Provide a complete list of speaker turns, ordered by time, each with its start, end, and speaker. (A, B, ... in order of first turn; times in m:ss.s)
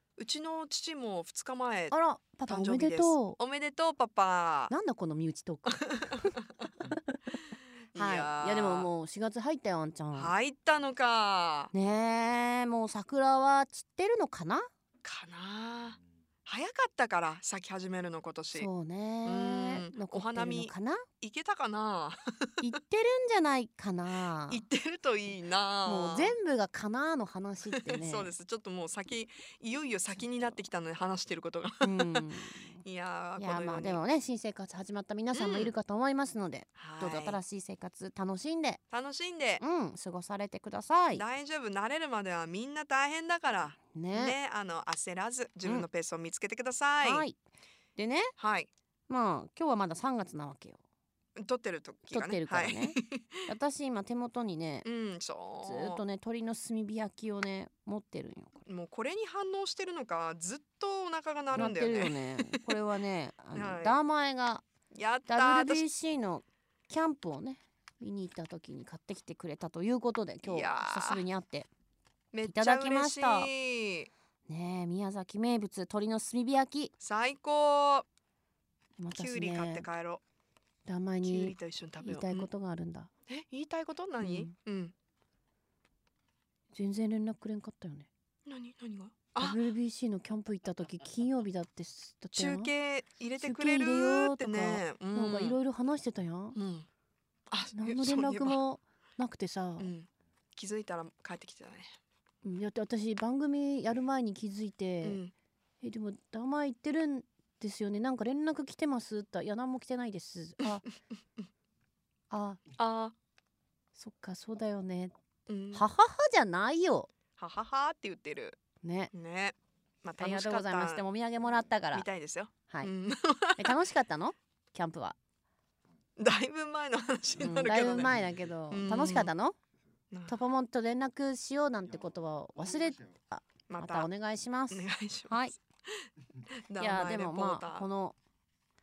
0:00.2-0:01.9 A
0:01.9-0:03.4 B
0:02.5-0:04.7 A
0:04.7-0:07.3 B
0:05.7-0:06.7 A
0:07.9-0:08.9 A
0:07.9-0:10.3 B
0:10.1-0:11.7 A
0:11.7-0:14.7 B
0:15.0-0:18.7 A
0:18.5-0:21.0 B
0:19.2-0:22.6 A
0:22.6-0:24.6 B
0:24.5-0:26.3 A
0:25.8-0:28.3 B
0:27.7-0:32.3 A
0:31.8-0:32.8 B
0:32.8-0:34.0 A
0:33.4-0:38.8 B
0:35.3-0:35.7 A
0:36.8-0:37.4 A
0:38.9-0:39.6 A
0:39.6-0:41.2 B
0:41.1-0:47.2 A
0:43.9-0:44.4 B
0:47.0-0:47.4 B
0:48.0-0:48.3 B
0:48.4-0:48.7 A
0:49.1-0:50.8 B
0:51.4-0:53.3 A
0:52.1-0:53.0 B
0:53.5-0:54.8 B
0:54.8-0:56.0 A
0:55.6-0:58.6 B
0:58.6-1:02.6 A
1:01.5-1:04.6 B
1:03.5-1:04.0 A
1:04.9-1:05.8 A
1:05.3-1:11.7 B
1:10.4-1:11.2 A
1:12.3-1:14.1 A
1:12.4-1:13.5 B
1:14.5-1:16.9 B
1:17.0-1:18.0 A
1:19.0-1:19.8 B
1:19.1-1:20.2 A
1:20.8-1:23.1 B
1:21.2-1:22.5 A
1:23.3-1:24.9 A
1:24.2-1:24.5 B
1:26.7-1:28.1 B
1:28.4-1:29.6 A
1:29.4-1:32.7 B
1:32.3-1:35.6 A
1:33.4-1:36.6 B
1:36.5-1:36.9 A
1:37.5-1:38.6 A
1:37.8-1:39.9 B
1:39.8-1:42.0 A
1:42.4-1:45.2 B
1:45.0-1:45.3 A
1:45.8-1:50.8 B
1:52.3-1:52.6 B
1:52.8-1:53.1 A
1:54.0-1:55.1 B
1:55.5-1:55.8 A
1:55.7-1:57.1 B
1:57.4-1:58.6 A
1:58.8-1:59.1 B
1:59.1-2:01.0 A
2:00.2-2:02.1 B
2:01.9-2:03.8 A
2:03.6-2:05.2 B
2:06.2-2:08.2 A
2:07.4-2:09.6 B
2:08.7-2:09.3 A
2:10.1-2:10.4 A
2:10.3-2:15.5 B
2:13.7-2:14.1 A
2:14.7-2:15.6 A
2:16.7-2:17.9 A
2:16.8-2:18.1 B